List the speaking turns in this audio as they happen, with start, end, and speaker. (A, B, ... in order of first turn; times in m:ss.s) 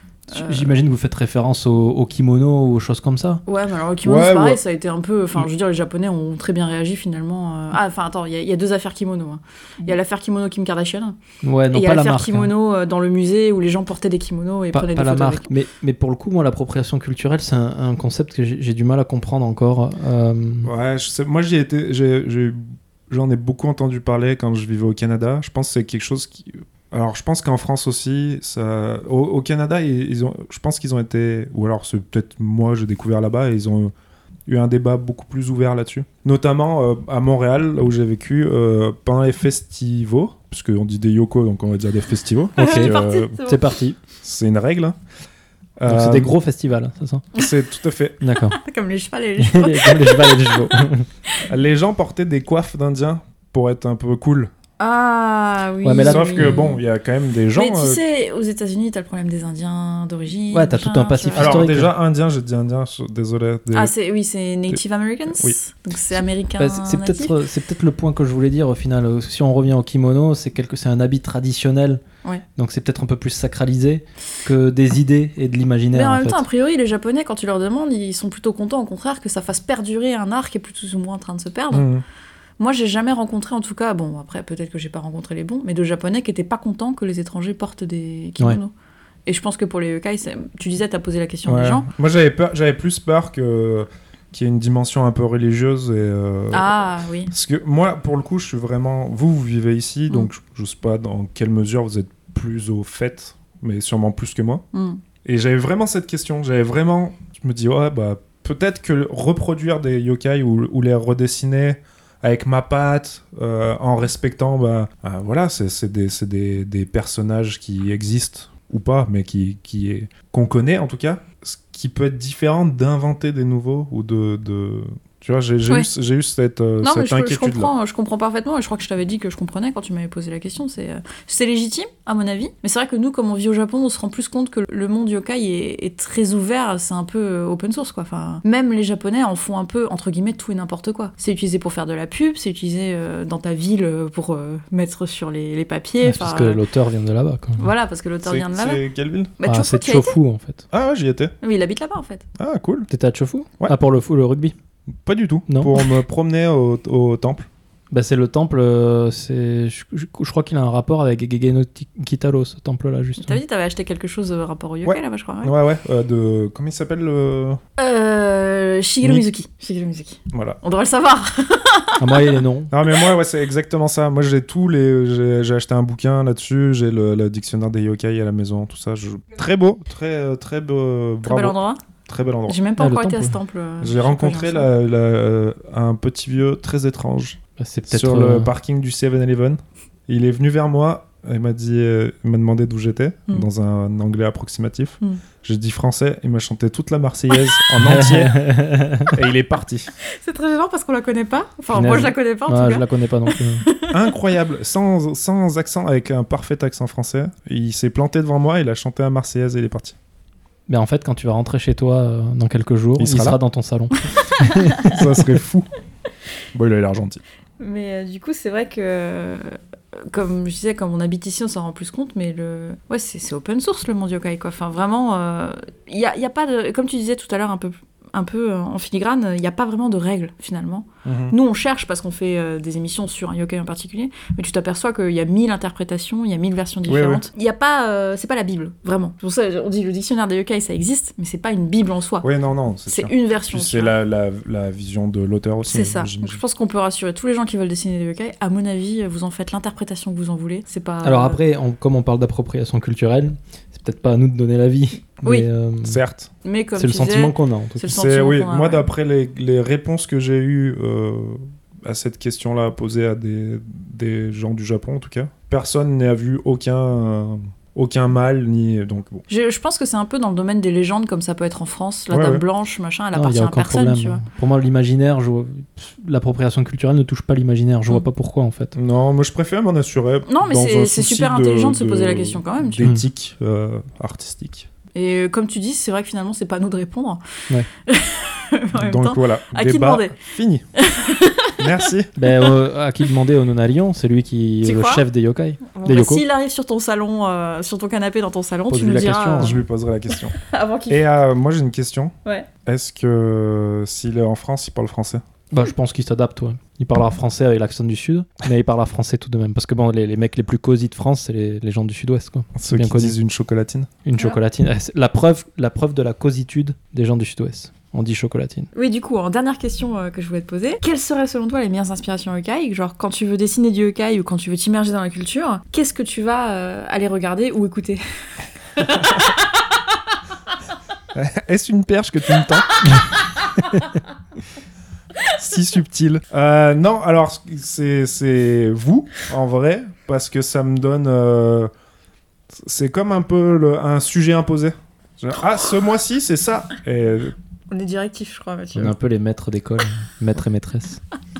0:00.3-0:00.7 A
0:00.3-0:03.4 B
0:03.4-0:11.2 A
0:04.0-0:04.6 C
0:11.4-0:12.5 B
0:11.7-0:15.5 A
0:14.7-0:20.7 B
0:20.6-0:33.9 C
0:34.5-0:43.4 C
0:42.6-0:44.0 B
0:42.6-0:43.6 A
0:44.2-0:45.0 C
0:45.8-0:46.3 C
0:45.9-0:47.2 B
0:47.3-0:48.2 C
0:48.2-0:48.6 B
0:48.5-0:50.8 A
0:49.4-0:51.1 B
0:51.5-0:54.5 C
0:54.8-0:56.8 A
0:55.8-0:56.6 B
0:56.0-0:58.0 C
0:57.5-1:01.6 A
1:00.5-1:01.9 B
1:01.4-1:03.9 C
1:03.7-1:07.4 A
1:06.6-1:12.0 B
1:12.6-1:16.4 B
1:15.9-1:21.8 A
1:21.7-1:22.0 C
1:22.6-1:28.7 A
1:29.2-1:31.9 A
1:31.4-1:36.7 C
1:36.5-1:37.3 A
1:37.3-1:44.6 C
1:44.7-1:45.0 A
1:45.2-2:07.7 C
2:06.8-2:26.6 A
2:26.0-2:27.6 B
2:27.6-2:28.8 A
2:28.2-2:29.3 C
2:29.4-2:30.2 A
2:29.4-2:30.6 B
2:30.7-2:31.3 C
2:31.4-2:32.2 A
2:32.4-2:32.9 C
2:32.9-2:34.5 B
2:35.0-2:37.5 C
2:35.5-2:35.8 B
2:37.9-2:43.4 B
2:43.2-2:45.5 A
2:44.8-2:47.6 C
2:47.8-2:52.9 A
2:50.3-2:50.6 C
2:52.0-2:52.7 B
2:52.7-3:02.6 C
3:01.2-3:01.8 A
3:02.5-3:04.7 A
3:02.8-3:03.4 B
3:03.8-3:18.4 C
3:07.6-3:08.5 B
3:17.8-3:19.2 B
3:19.1-3:19.9 C
3:20.0-3:24.0 A
3:21.7-3:23.6 B
3:23.9-3:30.0 C
3:30.7-3:35.0 B
3:33.0-3:33.4 C
3:34.2-3:34.9 A
3:34.8-3:35.7 C
3:36.5-3:37.2 C
3:37.6-4:02.3 A
3:51.0-3:51.4 C
3:56.9-3:57.2 C
4:02.2-4:06.4 C
4:02.9-4:03.9 A
4:05.7-4:11.4 A
4:11.0-4:16.0 B
4:15.8-4:16.3 C
4:16.4-4:18.9 A
4:16.8-4:17.8 B
4:17.9-4:29.2 C
4:29.3-4:34.2 A
4:32.1-4:32.4 C
4:33.1-4:38.7 B
4:38.7-4:44.7 C
4:40.3-4:42.9 A
4:44.9-4:47.2 A
4:47.8-4:50.1 A
4:48.7-4:50.6 C
4:50.8-4:51.8 A
4:51.6-4:52.1 C
4:52.2-4:56.2 B
4:54.6-4:55.0 A
4:55.7-4:59.6 A
4:58.7-4:59.6 B
4:59.4-5:00.4 C
5:00.4-5:01.0 A
5:00.9-5:02.1 C
5:02.6-5:05.2 C
5:05.5-5:13.2 B
5:12.6-5:13.9 C
5:14.0-5:18.7 B
5:18.7-5:28.0 A
5:28.8-5:29.6 A
5:31.1-5:32.9 C
5:32.8-5:33.9 A
5:35.3-5:41.7 C
5:42.5-5:47.3 C
5:47.7-5:48.9 A
5:48.7-5:51.0 B